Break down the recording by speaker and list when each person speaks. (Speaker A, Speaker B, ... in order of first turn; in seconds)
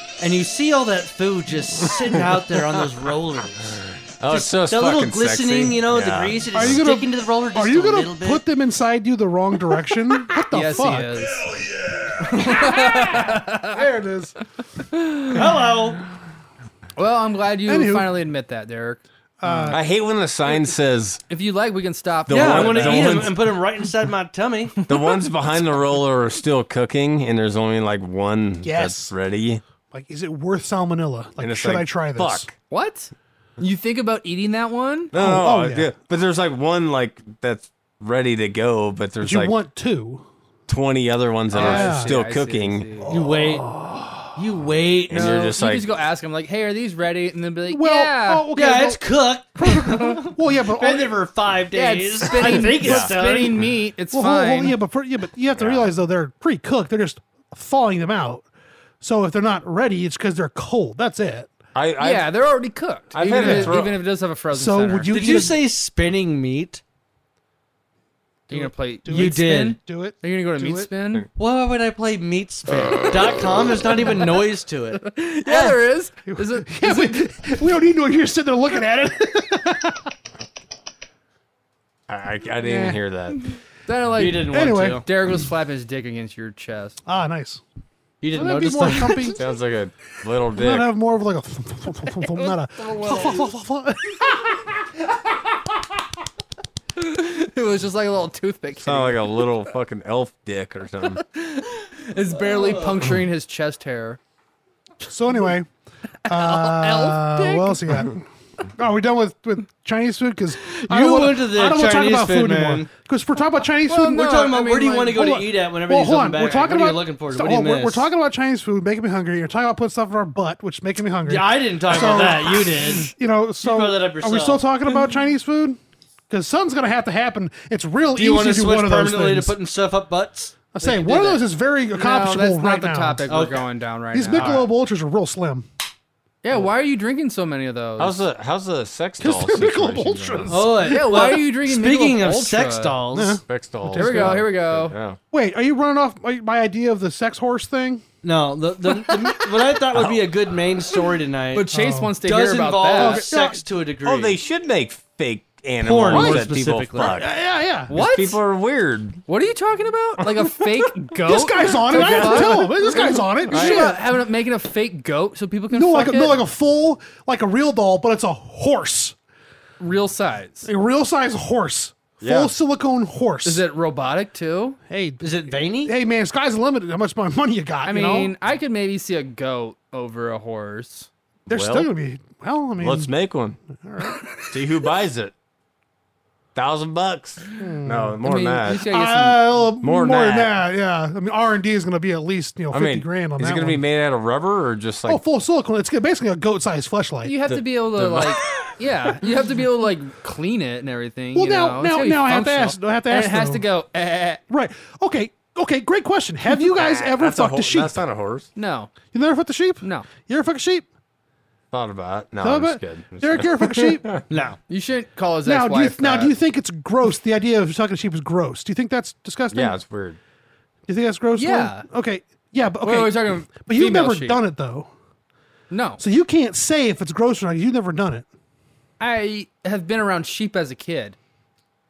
Speaker A: 0.2-8.4, 15.3-16.0, 22.3-24.8, 43.1-43.7, 44.4-45.3, 48.5-53.6, 65.1-66.8, 69.1-69.8, 71.4-75.0, 84.2-85.0, 88.2-89.4, 102.4-103.1, 110.7-112.9, 114.1-118.1, 121.2-123.1, 123.6-124.7, 128.2-131.5, 133.3-133.6, 134.3-134.6, 140.5-143.4, 148.2-151.7, 152.2-154.4, 155.8-157.2, 175.2-175.9, 214.3-214.6
Speaker B: 3.7-6.8, 19.7-21.2, 22.3-23.5, 24.9-29.6, 31.4-32.5, 35.1-39.6, 40.7-42.9, 45.1-45.9, 52.8-53.1, 55.5-55.9, 61.8-62.3, 63.1-64.0, 75.5-75.8, 82.1-83.4, 89.4-90.9, 98.8-101.2, 138.0-140.7, 143.5-145.2, 149.9-150.3, 154.0-157.3, 157.9-159.2, 161.9-162.7, 163.5-164.0, 172.2-172.5, 181.5-181.9, 182.8-183.6, 184.5-185.3, 186.6-188.9, 189.8-190.5, 192.7-195.2, 197.5-198.5, 206.8-208.5, 211.7-214.2, 219.5-220.2
Speaker C: 6.5-11.2, 12.2-14.4, 17.7-18.1, 19.4-19.8, 28.6-29.1, 29.9-32.5, 35.1-35.9, 39.2-40.3, 41.5-42.1, 43.1-44.3, 47.7-49.0, 49.6-51.2, 54.1-58.5, 59.0-61.5, 63.3-63.8, 64.5-65.6, 68.5-70.9, 76.3-80.1, 84.5-85.0, 87.1-87.6, 88.3-89.4, 90.5-94.7, 105.0-105.7, 106.3-114.3, 115.1-129.5, 130.7-133.2, 134.1-135.7, 139.2-141.3, 143.1-144.4, 145.3-148.0, 151.7-152.2, 152.9-153.6, 156.1-157.9, 161.2-164.0, 165.7-169.2, 170.7-173.6, 174.9-175.3, 175.8-178.3, 181.5-183.1, 183.8-184.4, 187.6-188.2, 188.8-193.8, 195.1-197.3, 201.3-203.7, 204.5-208.0, 209.1-210.8, 212.4-214.1, 215.4-219.8, 220.9-224.9, 226.0-228.3
Speaker D: 10.5-11.4, 12.2-13.8, 14.8-15.5, 17.0-19.8, 21.3-23.3, 24.8-25.2, 32.7-35.1, 41.5-43.1, 45.1-48.5, 51.7-54.8, 62.0-65.2, 68.5-71.3, 74.9-77.4, 82.6-87.0, 92.2-93.5, 97.0-99.3, 101.0-104.2, 106.2-107.8, 113.8-115.2, 131.9-134.7, 136.4-138.2, 140.9-143.0, 144.0-145.0, 151.5-153.3, 157.9-158.4, 159.3-166.4, 169.8-170.7, 173.4-174.8, 177.8-181.1, 188.2-189.7, 197.2-204.4, 208.6-208.9, 209.8-210.1, 214.7-216.4, 221.4-221.9, 222.8-224.4, 225.7-226.0, 229.0-231.2